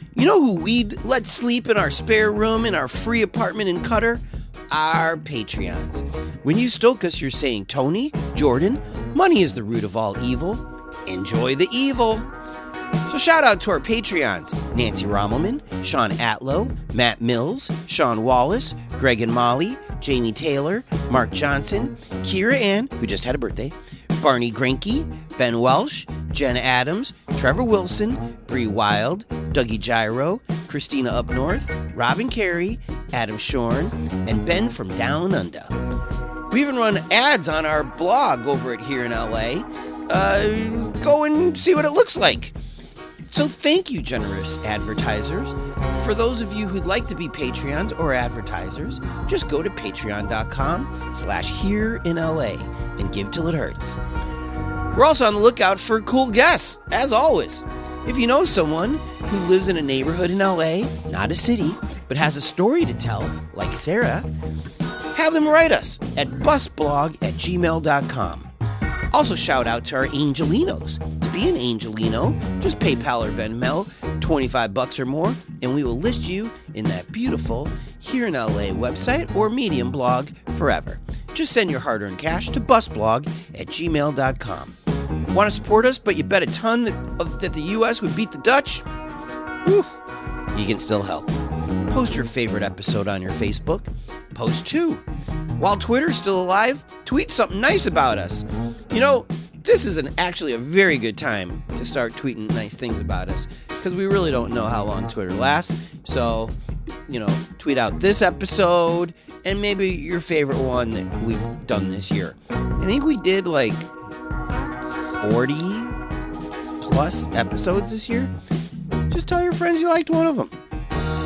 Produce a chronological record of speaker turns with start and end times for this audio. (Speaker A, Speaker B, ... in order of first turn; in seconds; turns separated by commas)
Speaker A: 0.1-12.3, Speaker A: 13.1-35.7, Speaker A: 36.5-42.6, Speaker A: 43.3-54.0, Speaker A: 54.9-64.3, Speaker A: 65.1-68.5, Speaker A: 69.1-84.8, Speaker A: 85.3-88.9, Speaker A: 89.6-90.0, Speaker A: 90.5-91.3, Speaker A: 91.9-95.0, Speaker A: 95.6-106.5, Speaker A: 107.1-113.9, Speaker A: 115.2-116.0, Speaker A: 116.8-118.3, Speaker A: 119.1-120.5